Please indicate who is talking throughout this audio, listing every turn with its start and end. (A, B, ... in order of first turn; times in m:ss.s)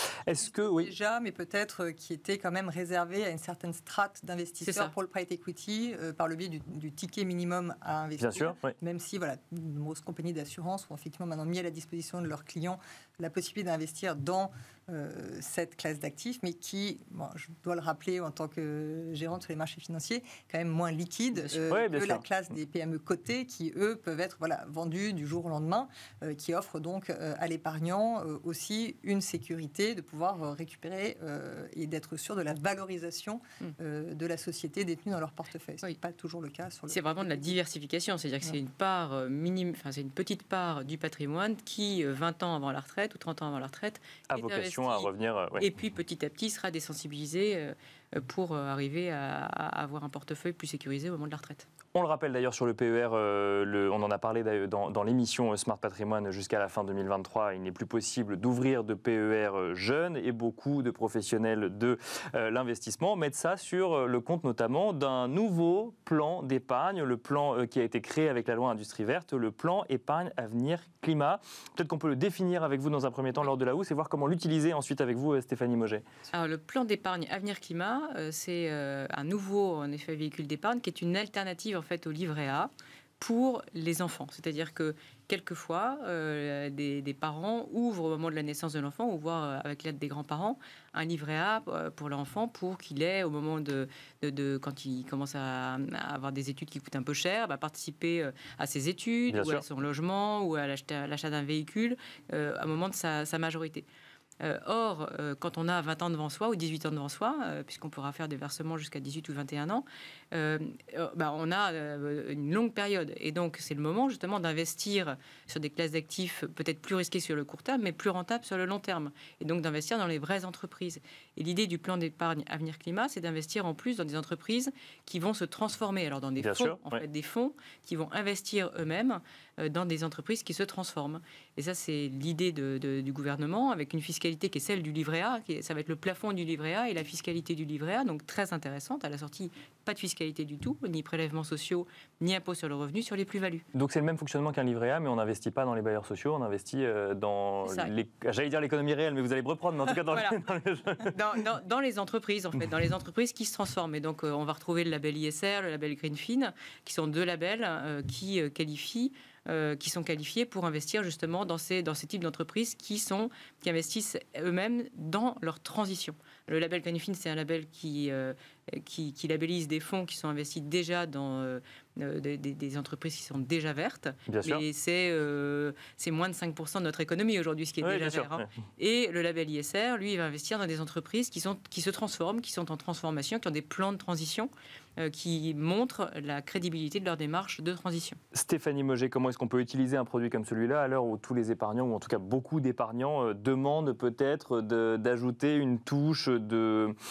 0:00.2-0:00.9 A
0:00.4-0:37.6 B
0:04.6-0:04.9 C
0:08.2-0:08.8 A
0:21.7-0:22.2 A
0:36.9-0:51.7 C
0:44.3-0:45.6 A
0:51.9-1:16.0 A
1:16.3-1:43.8 C
1:39.3-1:39.6 A
1:44.4-2:23.6 C
2:06.4-2:07.0 A
2:23.8-2:31.2 A
2:27.6-2:27.9 C
2:29.8-2:30.4 C
2:31.0-3:08.2 C
2:54.3-2:54.6 A
2:57.8-2:58.5 A
3:08.3-3:16.9 A